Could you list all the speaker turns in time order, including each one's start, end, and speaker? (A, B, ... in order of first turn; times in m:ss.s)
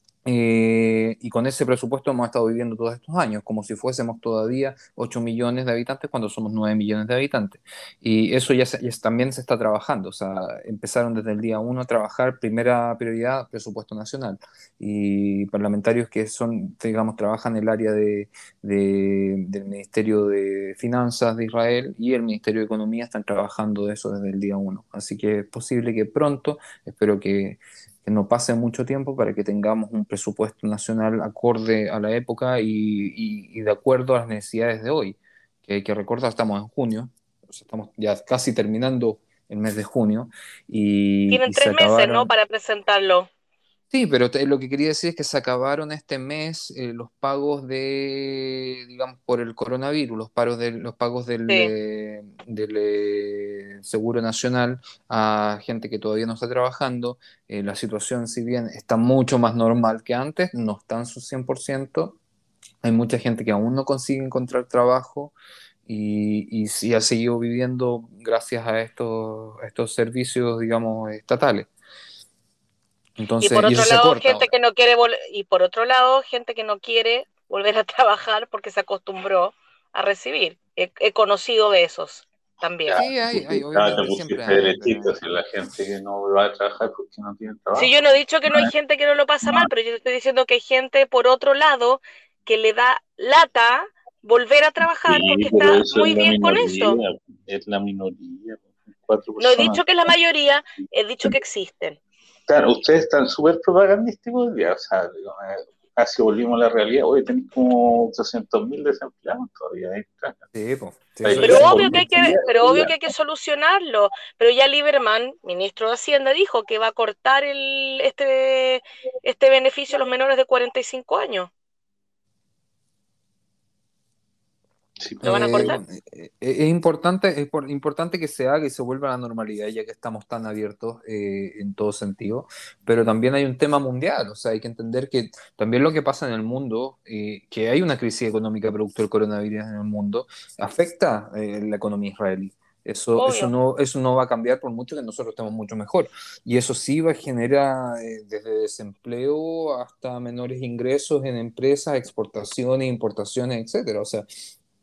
0:00.2-0:42.3 A
0:41.3-0:43.3 B
0:43.9-1:02.2 A
0:51.5-0:51.7 B
1:02.8-1:05.3 A
1:05.8-1:11.7 A
1:13.2-1:14.5 A
1:13.4-1:23.0 B
1:22.8-1:27.9 C
1:23.0-1:25.1 A
1:27.7-1:37.0 B
1:29.4-1:29.7 C
1:35.0-1:40.1 C
1:39.4-1:42.0 B
1:42.5-1:50.4 C
1:50.5-1:52.0 A
1:51.2-1:53.0 C
1:51.4-2:01.5 B
2:05.0-2:05.7 C
2:05.2-2:34.2 A
2:05.2-2:05.8 B
2:23.2-2:23.5 B